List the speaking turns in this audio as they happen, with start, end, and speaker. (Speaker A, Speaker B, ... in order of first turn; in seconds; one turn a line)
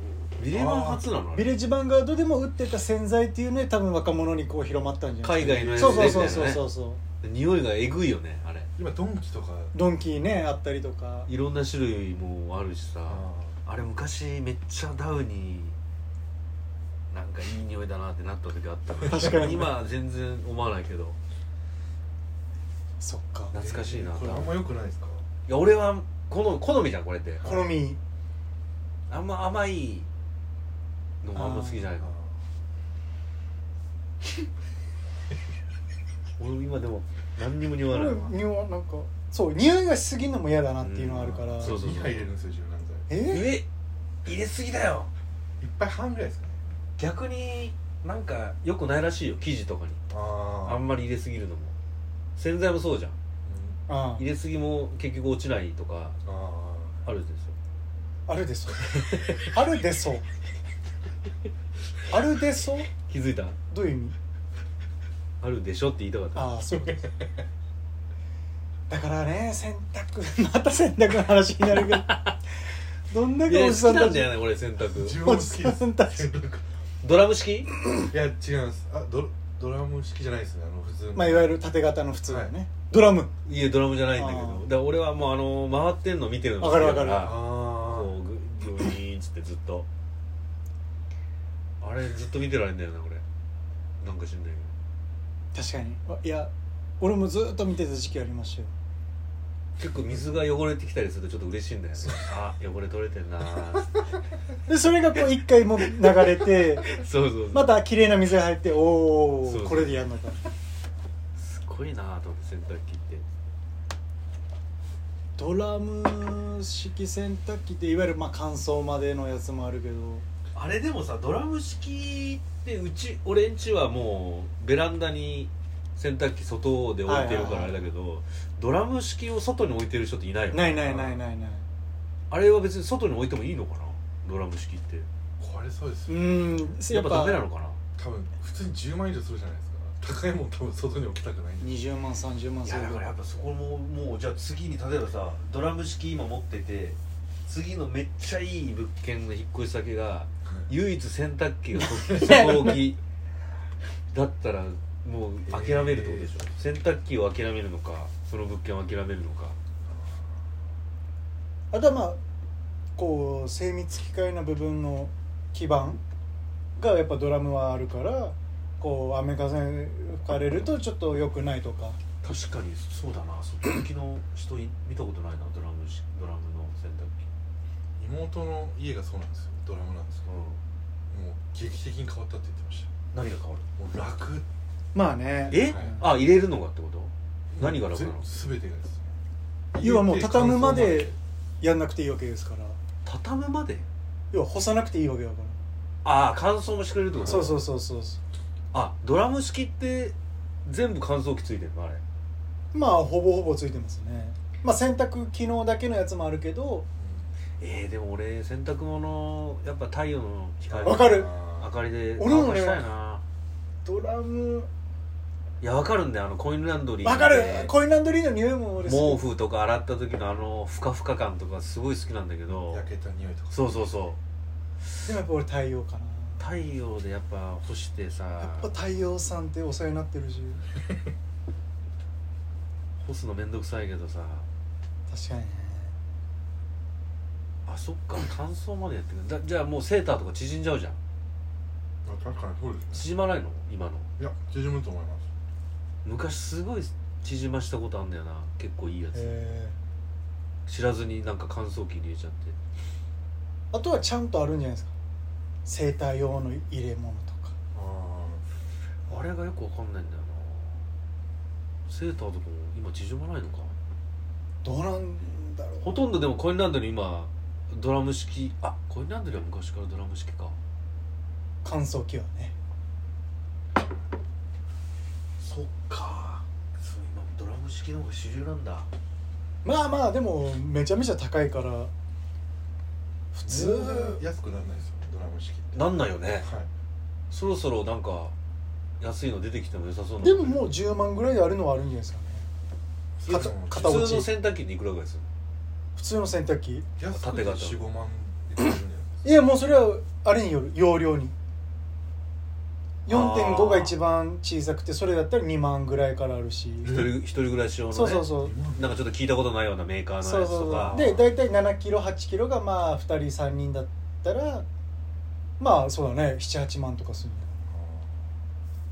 Speaker A: 0.4-1.5
Speaker B: 0.5-1.1
Speaker C: 1.3-7.0
Speaker A: 5.2-6.7
Speaker B: 5.4-6.6
Speaker A: 7.2-8.7
Speaker B: 8.8-9.8
Speaker C: 9.7-11.3
Speaker A: 11.3-15.8
Speaker B: 13.1-13.6
Speaker A: 17.1-21.2
Speaker C: 19.1-19.8
Speaker C: 23.0-23.6
Speaker A: 23.5-24.6
Speaker B: 23.6-25.2
Speaker A: 25.5-27.6
Speaker B: 27.4-27.7
Speaker C: 27.4-28.0
Speaker A: 29.1-30.1
Speaker A: 31.2-32.1
Speaker C: 31.3-31.9
Speaker B: 32.0-32.4
Speaker A: 36.4-38.3
Speaker C: 37.9-41.8
Speaker A: 40.8-42.3
Speaker B: 41.6-43.1
Speaker C: 43.1-43.5
Speaker A: 43.2-43.7
Speaker A: 44.2-45.1
Speaker B: 45.6-46.6
Speaker A: 47.0-50.0
Speaker B: 50.1-50.9
Speaker A: 50.6-51.8
Speaker A: 52.4-53.2
Speaker B: 53.5-53.8
Speaker C: 53.9-54.2
Speaker A: 54.2-56.2
Speaker B: 56.2-57.0
Speaker A: 57.0-57.5
Speaker C: 58.3-60.2
Speaker A: 58.9-59.4
Speaker C: 62.1-62.9
Speaker A: 63.0-63.6
Speaker C: 63.7-64.2
Speaker A: 65.4-66.6
Speaker C: 66.3-67.1
Speaker C: 68.9-72.2
Speaker A: 71.8-72.4
Speaker C: 73.1-74.4
Speaker A: 73.5-75.2
Speaker B: 74.8-76.7
Speaker C: 75.1-76.4
Speaker A: 77.0-77.7
Speaker B: 78.1-81.6
Speaker C: 81.2-83.3
Speaker B: 82.3-82.5
Speaker A: 83.5-89.9
Speaker C: 84.1-84.7
Speaker C: 86.6-87.4
Speaker B: 87.2-88.2
Speaker A: 91.8-93.2
Speaker A: 94.0-94.7
Speaker C: 95.5-98.7
Speaker A: 99.8-104.0
Speaker C: 104.7-110.5
Speaker A: 106.2-107.8
Speaker A: 109.5-110.0
Speaker A: 111.4-113.3
Speaker C: 115.4-120.2
Speaker A: 120.5-131.2
Speaker C: 127.1-127.9
Speaker C: 130.5-131.7
Speaker A: 132.3-135.1
Speaker B: 135.4-136.8
Speaker C: 136.1-137.4
Speaker A: 136.9-137.8
Speaker B: 138.0-141.7
Speaker C: 141.6-143.0
Speaker A: 142.6-153.0
Speaker C: 152.3-152.7
Speaker A: 154.1-159.6
Speaker B: 155.5-156.5
Speaker B: 159.8-160.4
Speaker C: 161.7-162.2
Speaker C: 163.0-166.0
Speaker C: 166.8-172.0
Speaker A: 172.2-177.2
Speaker B: 178.0-180.3
Speaker A: 180.3-180.6
Speaker B: 181.1-182.9
Speaker A: 183.1-183.7
Speaker B: 183.8-184.5
Speaker C: 184.9-186.2
Speaker A: 185.5-188.3
Speaker B: 185.5-186.0
Speaker B: 187.5-189.2
Speaker B: 189.7-191.2
Speaker C: 189.8-192.8
Speaker A: 193.1-193.9
Speaker C: 194.3-195.6
Speaker A: 196.0-197.6
Speaker B: 197.1-197.5
Speaker C: 197.2-198.2
Speaker A: 198.7-202.0
Speaker C: 202.7-206.9
Speaker B: 207.0-207.3
Speaker A: 207.6-213.2
Speaker B: 210.7-211.8
Speaker C: 210.8-211.3
Speaker C: 212.2-212.9
Speaker C: 213.8-214.7
Speaker A: 215.6-217.8
Speaker C: 217.0-219.2
Speaker A: 218.8-222.9
Speaker B: 222.7-223.9
Speaker A: 223.5-224.2
Speaker C: 225.0-226.4
Speaker A: 226.4-228.7
Speaker C: 228.4-230.6
Speaker A: 233.0-234.5
Speaker C: 235.1-236.0
Speaker A: 237.7-241.0
Speaker B: 242.1-243.1
Speaker A: 242.9-244.1
Speaker B: 244.2-245.2
Speaker A: 246.0-249.4
Speaker C: 249.1-249.8
Speaker A: 250.7-252.6
Speaker C: 253.7-254.9
Speaker C: 255.7-257.6
Speaker B: 257.7-258.4
Speaker A: 259.1-260.9
Speaker A: 261.9-263.8
Speaker C: 264.6-266.0
Speaker A: 265.8-270.6
Speaker C: 271.6-272.5
Speaker A: 275.4-278.9
Speaker C: 279.6-281.9
Speaker C: 283.3-284.2
Speaker B: 283.4-286.7
Speaker A: 285.7-286.5
Speaker A: 287.3-288.4
Speaker A: 289.0-290.7
Speaker C: 290.2-292.5
Speaker B: 293.2-294.3
Speaker A: 293.2-295.3
Speaker C: 293.3-294.3
Speaker C: 296.0-296.9
Speaker B: 297.0-299.3
Speaker A: 297.1-297.8
Speaker C: 299.2-301.4
Speaker C: 303.1-307.0
Speaker A: 303.1-304.0
Speaker B: 306.8-307.2
Speaker A: 306.8-311.2
Speaker C: 307.9-308.6
Speaker B: 308.4-309.0
Speaker C: 310.2-314.6
Speaker B: 310.8-311.3
Speaker C: 315.6-317.6
Speaker B: 317.7-318.2